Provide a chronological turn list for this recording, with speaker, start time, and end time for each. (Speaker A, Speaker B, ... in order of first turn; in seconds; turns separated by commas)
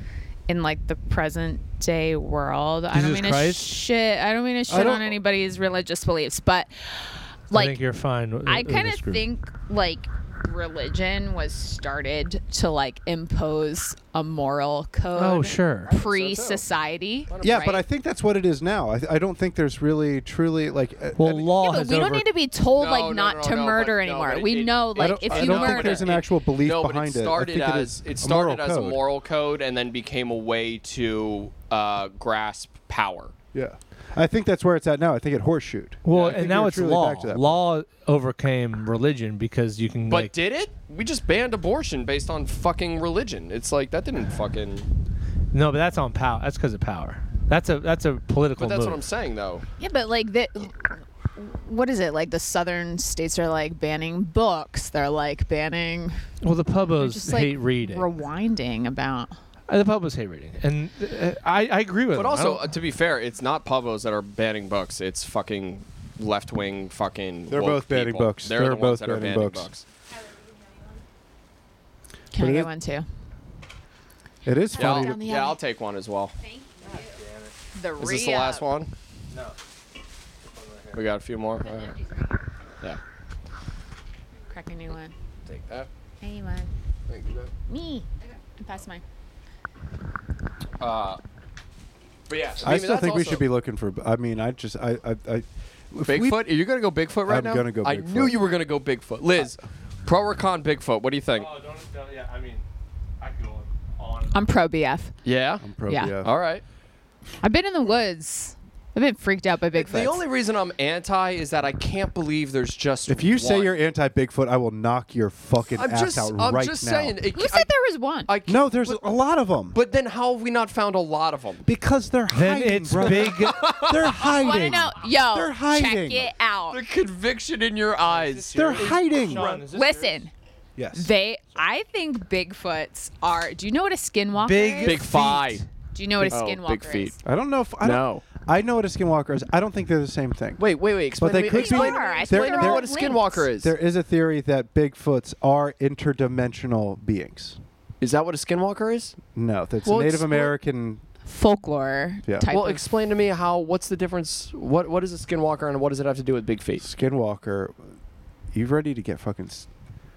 Speaker A: 0.5-7.8, Speaker B: 2.9-3.8, Speaker C: 4.7-5.2, Speaker B: 7.5-9.2, Speaker A: 8.4-17.8, Speaker B: 15.2-15.9, Speaker D: 15.9-16.6, Speaker D: 17.3-17.6, Speaker C: 17.4-21.5, Speaker B: 21.2-22.3, Speaker A: 21.5-26.1, Speaker D: 22.7-33.3, Speaker C: 25.0-29.0, Speaker C: 33.5-37.6, Speaker B: 36.0-40.3, Speaker D: 36.1-36.4, Speaker D: 40.1-44.9, Speaker B: 45.5-49.0, Speaker D: 48.6-49.6, Speaker A: 49.8-56.2, Speaker B: 56.4-58.1, Speaker A: 56.8-59.4, Speaker B: 59.7-62.7, Speaker D: 62.1-69.8, Speaker C: 67.5-69.7, Speaker A: 72.3-73.1, Speaker C: 72.4-72.7, Speaker C: 74.5-75.2, Speaker A: 74.8-75.6, Speaker D: 74.8-76.3, Speaker B: 76.8-77.5, Speaker A: 77.7-78.6, Speaker D: 78.0-78.9, Speaker B: 80.5-81.0, Speaker D: 80.9-82.0, Speaker A: 84.5-85.2, Speaker D: 85.5-85.9, Speaker A: 86.2-86.7, Speaker D: 87.1-87.5, Speaker A: 87.7-89.0, Speaker D: 90.8-91.2, Speaker D: 92.3-93.5, Speaker C: 92.6-96.4, Speaker D: 96.0-101.5, Speaker C: 97.3-98.4, Speaker B: 101.3-102.7, Speaker B: 103.2-104.5, Speaker A: 104.3-105.1, Speaker D: 105.2-105.7, Speaker C: 105.6-106.3, Speaker A: 105.9-106.2, Speaker D: 106.2-106.6, Speaker A: 107.4-110.2, Speaker D: 109.8-113.7, Speaker C: 113.1-117.2, Speaker D: 115.8-117.7, Speaker A: 117.3-118.3, Speaker D: 118.3-119.1, Speaker C: 118.5-119.8, Speaker D: 119.7-121.7, Speaker C: 121.6-126.3, Speaker B: 122.3-123.7, Speaker D: 123.0-124.1, Speaker A: 124.1-126.8, Speaker B: 124.3-124.8, Speaker D: 126.7-129.6, Speaker B: 128.1-130.2, Speaker C: 128.5-129.5, Speaker A: 129.7-130.3, Speaker C: 130.8-131.1, Speaker A: 130.9-135.0, Speaker B: 134.4-135.7, Speaker D: 134.8-135.7, Speaker A: 135.9-137.2, Speaker D: 136.3-137.2, Speaker C: 137.2-140.6, Speaker D: 137.8-138.2, Speaker D: 140.6-143.7, Speaker C: 141.2-142.9, Speaker A: 141.5-143.5, Speaker C: 143.5-147.6, Speaker D: 148.0-149.2, Speaker C: 149.3-151.0, Speaker D: 149.8-150.5, Speaker A: 151.2-152.8, Speaker D: 152.5-156.8, Speaker C: 156.8-157.8, Speaker C: 158.5-159.7